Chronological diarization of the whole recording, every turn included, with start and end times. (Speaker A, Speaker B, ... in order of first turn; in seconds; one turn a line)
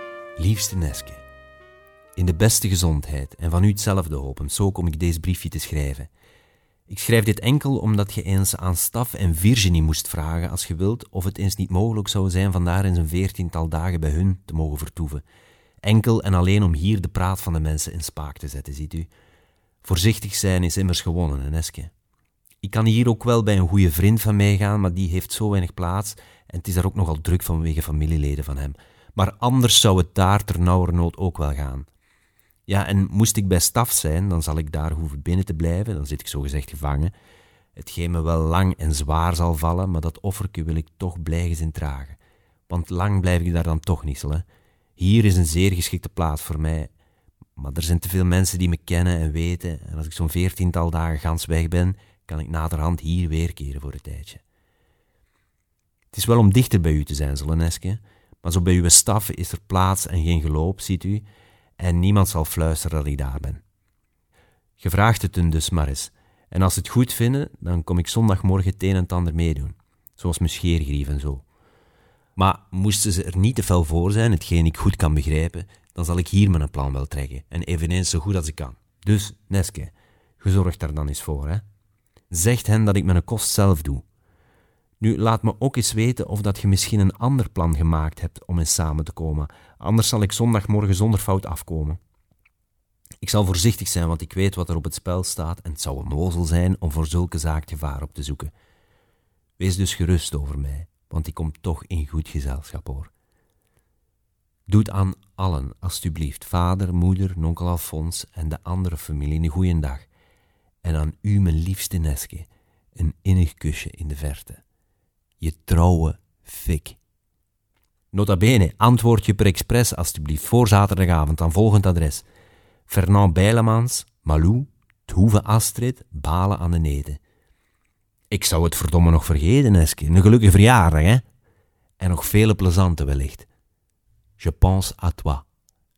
Speaker A: 0.4-1.2
Speaker A: 2.2-6.1
Speaker A: 6.9-15.2
Speaker A: 15.8-19.1
Speaker A: 19.8-21.9
Speaker A: 22.6-31.9
Speaker A: 32.7-37.1
Speaker A: 37.8-42.2
Speaker A: 42.7-44.5
Speaker A: 45.0-46.9
Speaker A: 47.6-54.4
Speaker A: 56.1-61.3
Speaker A: 61.8-63.6
Speaker A: 64.8-71.4
Speaker A: 72.4-81.6
Speaker A: 82.3-84.0
Speaker A: 85.0-92.0
Speaker A: 93.2-98.5
Speaker A: 99.6-103.1
Speaker A: 104.7-110.1
Speaker A: 110.8-114.6
Speaker A: 115.4-117.0
Speaker A: 118.1-122.2
Speaker A: 122.9-127.2
Speaker A: 128.3-131.2
Speaker A: 132.0-133.5
Speaker A: 134.4-135.5